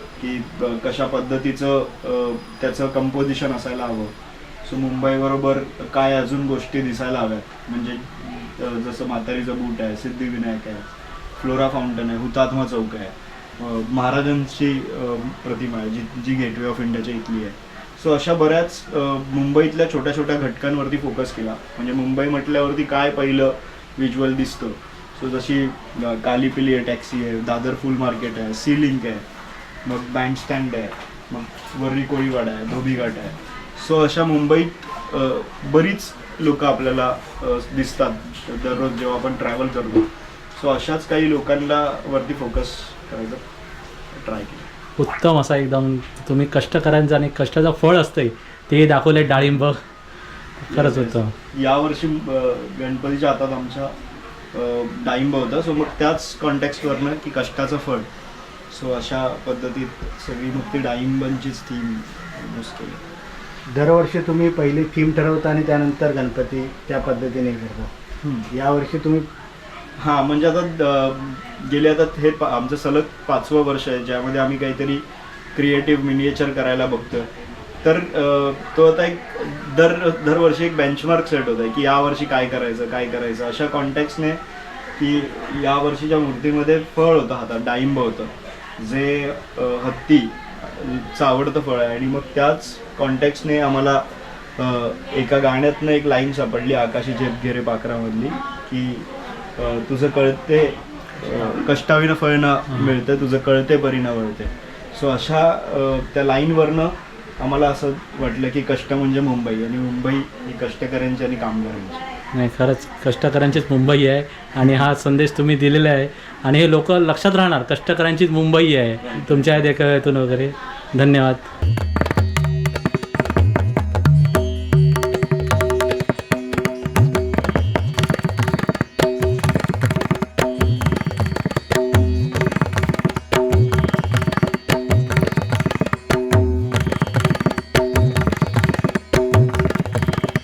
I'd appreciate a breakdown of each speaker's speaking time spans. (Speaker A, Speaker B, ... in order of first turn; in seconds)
Speaker A: 0.2-29.3, 29.9-43.4, 44.1-44.7, 50.7-53.9, 54.5-58.1, 58.7-63.0, 70.0-77.3, 77.8-84.4, 85.0-94.0, 94.6-112.0, 119.0-119.5
Speaker B: 45.0-49.8, 50.6-51.3, 112.3-121.5
Speaker C: 63.7-67.9, 68.5-69.3